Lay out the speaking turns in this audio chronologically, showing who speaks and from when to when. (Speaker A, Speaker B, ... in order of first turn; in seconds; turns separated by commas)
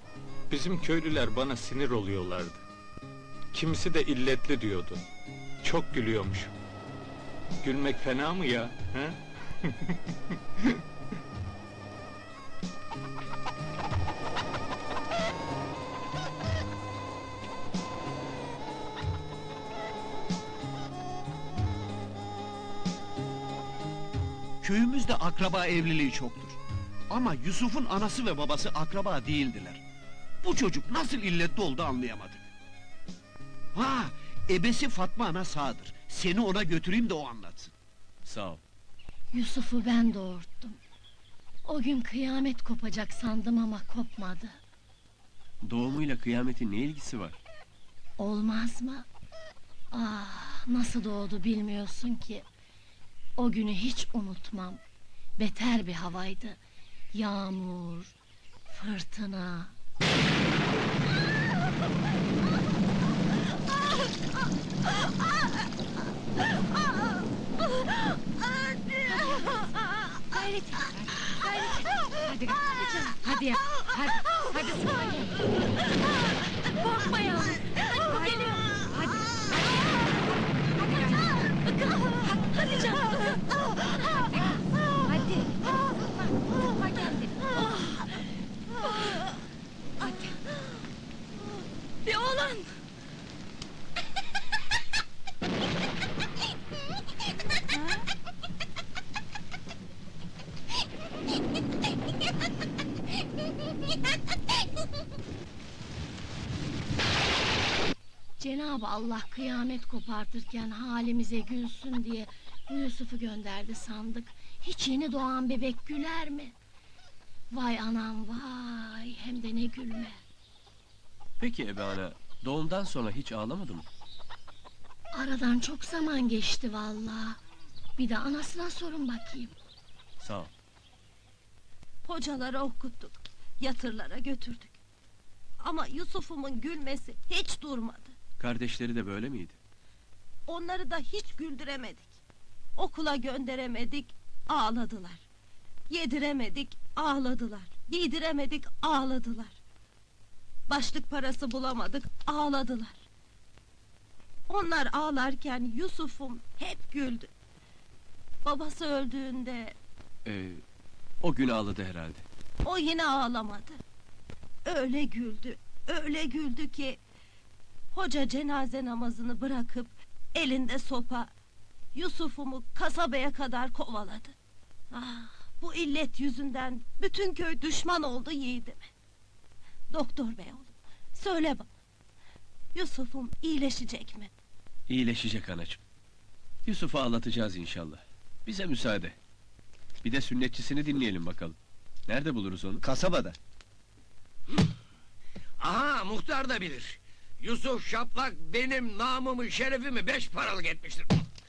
Speaker A: 0.5-2.6, Speaker A: 3.5-5.0, Speaker A: 5.6-6.5, Speaker A: 7.6-10.0, Speaker B: 24.6-26.6, Speaker B: 27.1-29.8, Speaker B: 30.4-32.5, Speaker B: 33.7-37.7, Speaker C: 38.2-38.6, Speaker D: 39.3-40.8, Speaker D: 41.6-44.6, Speaker C: 45.6-47.4, Speaker D: 48.2-49.1, Speaker D: 49.9-52.5, Speaker D: 53.4-54.8, Speaker D: 55.4-56.6, Speaker D: 57.1-58.1, Speaker D: 58.7-59.7, Speaker E: 69.2-69.7, Speaker F: 70.3-75.4, Speaker E: 71.4-71.8, Speaker E: 72.7-73.0, Speaker E: 76.8-78.8, Speaker F: 78.0-81.5, Speaker E: 81.8-83.4, Speaker F: 84.2-87.4, Speaker E: 87.5-88.2, Speaker E: 88.9-89.2, Speaker F: 90.0-90.4, Speaker E: 91.5-92.7, Speaker E: 97.7-98.0, Speaker D: 108.4-116.5, Speaker D: 117.5-120.2, Speaker C: 121.4-123.8, Speaker D: 125.1-127.4, Speaker D: 128.0-129.5, Speaker C: 130.2-130.5, Speaker E: 132.1-134.8, Speaker E: 135.6-138.2, Speaker C: 138.4-139.6, Speaker E: 140.5-142.2, Speaker E: 142.8-145.2, Speaker E: 145.9-149.6, Speaker E: 150.7-153.0, Speaker E: 154.5-157.3, Speaker E: 158.4-159.8, Speaker C: 160.3-160.6, Speaker C: 161.2-162.2, Speaker E: 162.6-163.8, Speaker E: 164.7-167.0, Speaker E: 167.9-171.3, Speaker E: 171.9-174.3, Speaker E: 174.9-178.9, Speaker E: 179.9-181.7, Speaker E: 182.8-184.3, Speaker C: 184.9-185.8, Speaker C: 186.7-189.2, Speaker C: 190.0-191.6, Speaker C: 192.1-192.8, Speaker B: 192.8-193.4, Speaker G: 195.6-201.2